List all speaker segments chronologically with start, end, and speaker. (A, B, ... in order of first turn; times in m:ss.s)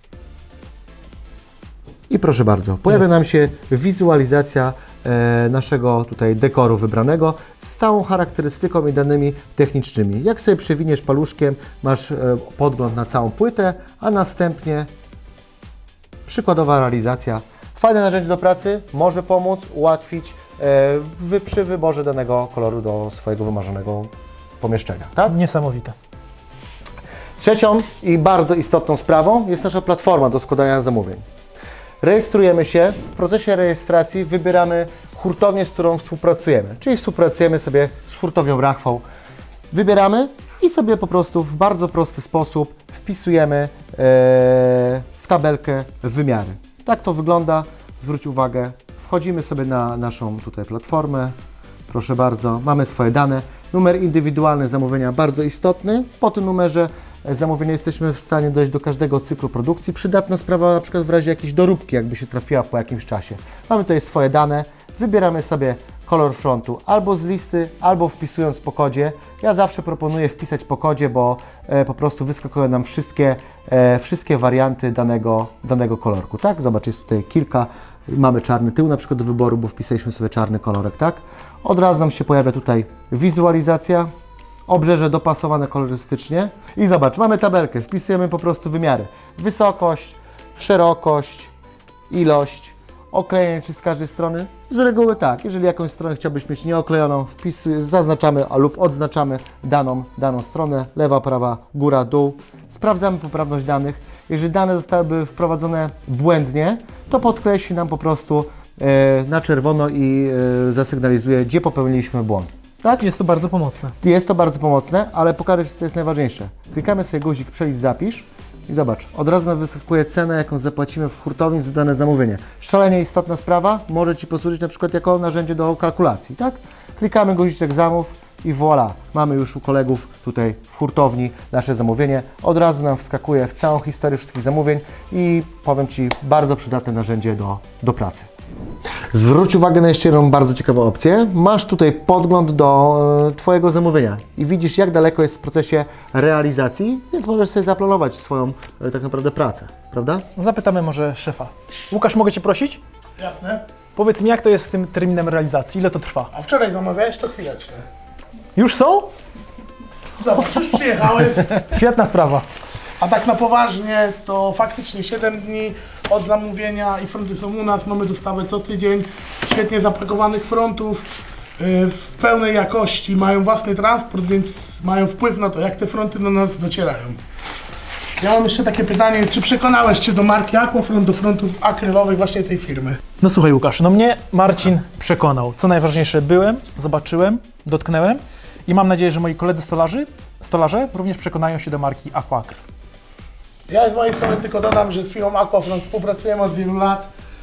0:02.1-0:14.9 A
0:16.3-0:25.4 A
0:25.3-0:25.9 B
0:27.4-0:31.2 A
0:32.0-0:39.0 A
0:39.7-0:51.3 A
0:51.9-1:24.1 A
1:24.7-1:31.5 A
1:32.1-1:53.0 A
1:52.9-1:53.9 B
1:54.0-2:18.3 A
2:19.1-2:30.2 A
2:30.3-2:32.8 B
2:33.2-2:33.6 C
2:33.9-2:36.3 B
2:36.3-2:37.8 C
2:38.6-2:39.1 B
2:40.2-2:41.5 C
2:41.5-2:42.4 B
2:43.0-2:51.1 C
2:51.6-2:57.2 C
2:58.2-3:03.0 C
3:03.2-3:12.6 B
3:13.7-3:17.1 C